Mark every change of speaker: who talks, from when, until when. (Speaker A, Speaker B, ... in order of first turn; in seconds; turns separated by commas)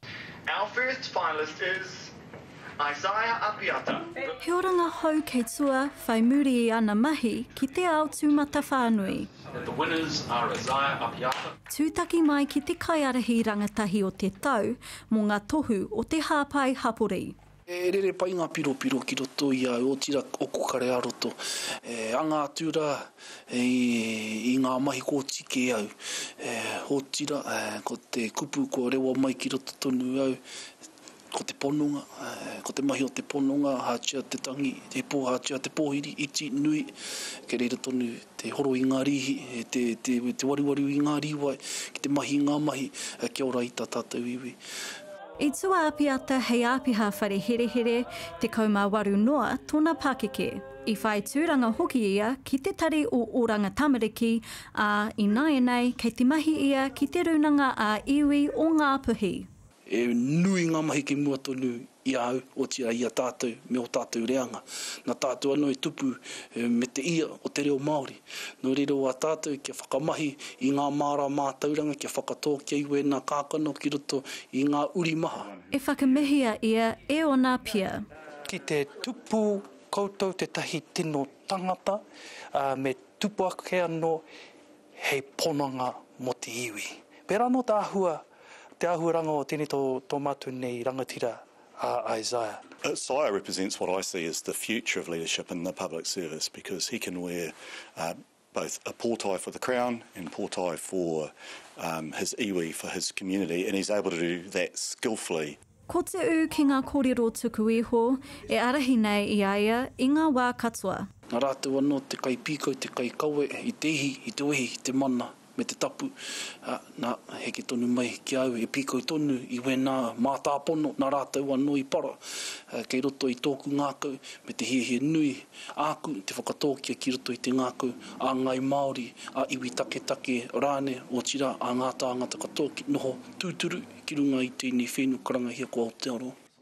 Speaker A: 0.5-2.1, Speaker A: 2.8-4.1, Speaker B: 4.4-9.3, Speaker A: 9.6-11.5, Speaker B: 11.7-17.4, Speaker C: 17.7-30.4, Speaker C: 31.3-36.9, Speaker C: 37.5-44.6, Speaker B: 45.4-59.5, Speaker C: 59.9-75.5, Speaker B: 75.7-78.0, Speaker D: 78.5-82.0, Speaker D: 82.5-84.2, Speaker D: 85.0-88.2, Speaker D: 88.8-92.6, Speaker E: 92.8-105.6, Speaker B: 105.9-111.1, Speaker C: 111.3-122.2, Speaker C: 122.7-136.4